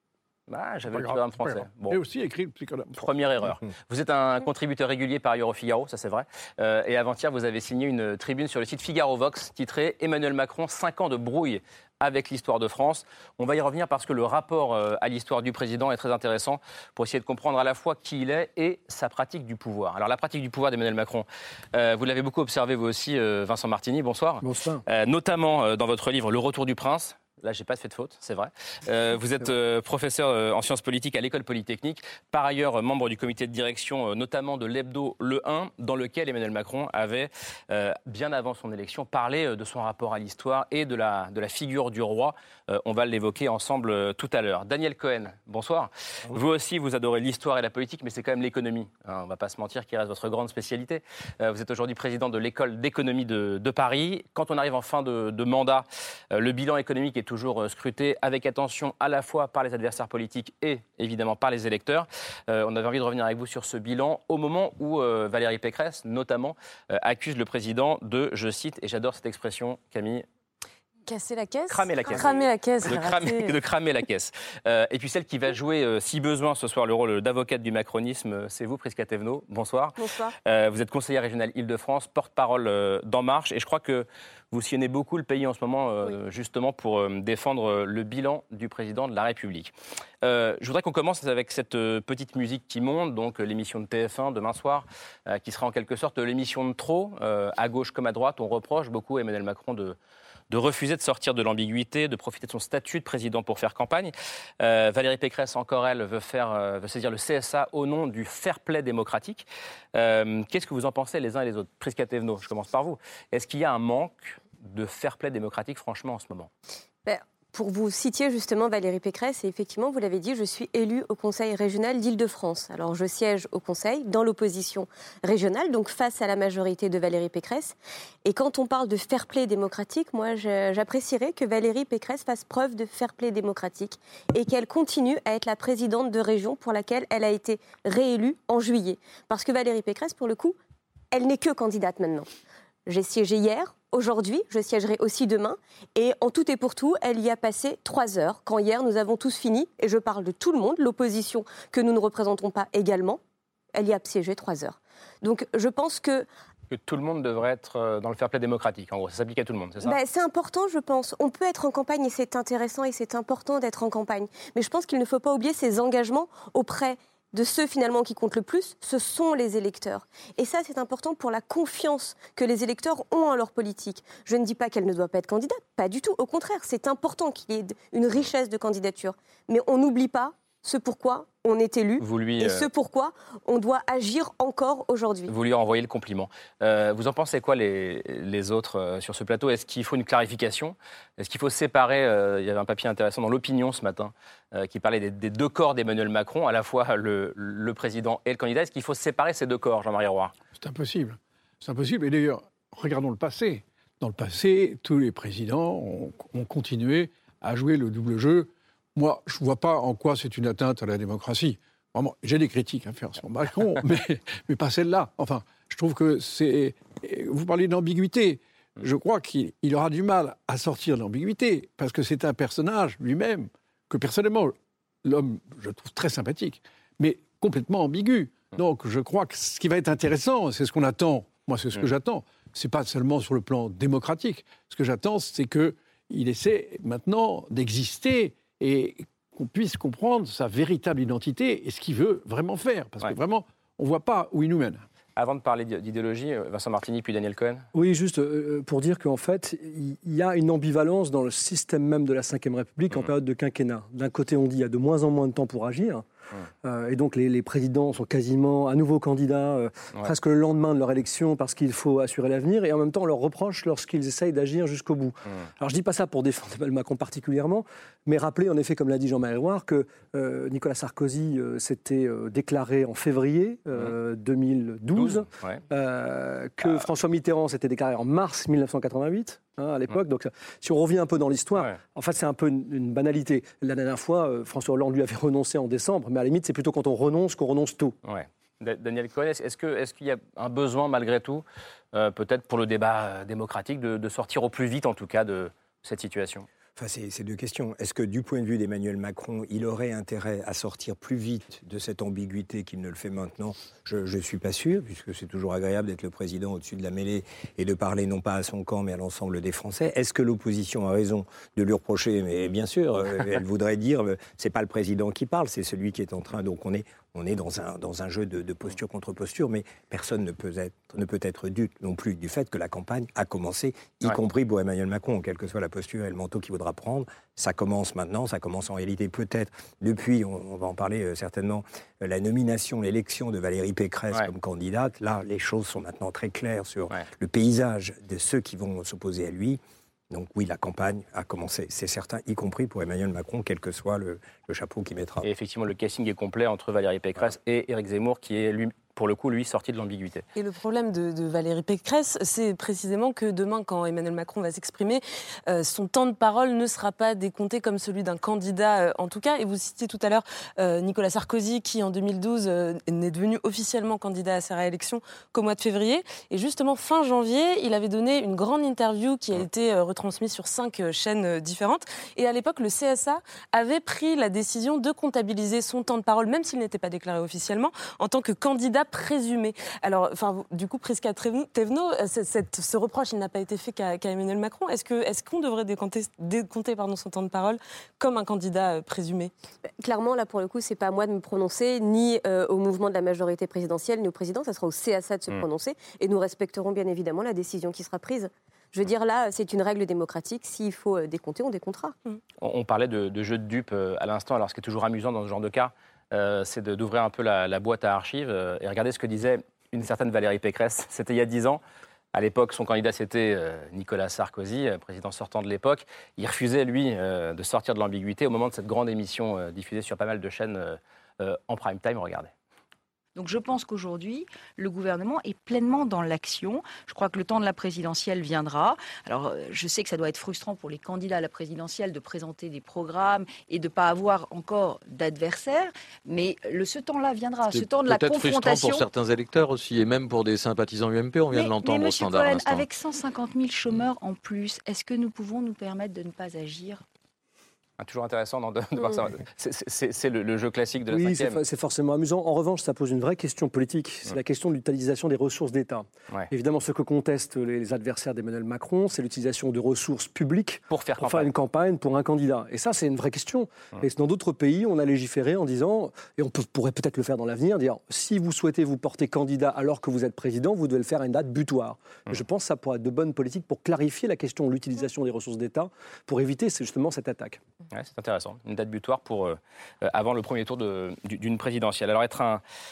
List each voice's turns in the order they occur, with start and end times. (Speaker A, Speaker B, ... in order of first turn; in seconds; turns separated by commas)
Speaker A: 0.5-2.0, Speaker B: 0.9-3.1, Speaker A: 3.0-70.2, Speaker C: 24.4-24.8, Speaker D: 71.0-73.6, Speaker A: 71.7-100.0, Speaker E: 80.0-80.3, Speaker A: 100.5-116.5, Speaker E: 117.0-140.6, Speaker E: 141.1-142.3, Speaker E: 142.8-153.2, Speaker E: 153.7-156.3, Speaker A: 156.7-160.0, Speaker E: 159.8-185.3, Speaker A: 182.0-182.7, Speaker A: 185.3-200.3, Speaker B: 200.6-244.8, Speaker A: 245.2-247.7, Speaker C: 247.7-256.0, Speaker C: 256.6-287.9, Speaker A: 274.9-275.6, Speaker A: 288.0-296.5, Speaker F: 296.8-345.2, Speaker A: 345.2-350.2, Speaker D: 350.4-389.3, Speaker E: 389.8-401.9, Speaker A: 402.4-411.6, Speaker A: 412.1-422.3, Speaker G: 423.1-438.9, Speaker H: 437.5-442.7, Speaker G: 441.3-446.8, Speaker A: 447.8-451.4, Speaker C: 450.9-477.4, Speaker A: 460.7-461.3, Speaker A: 477.7-482.4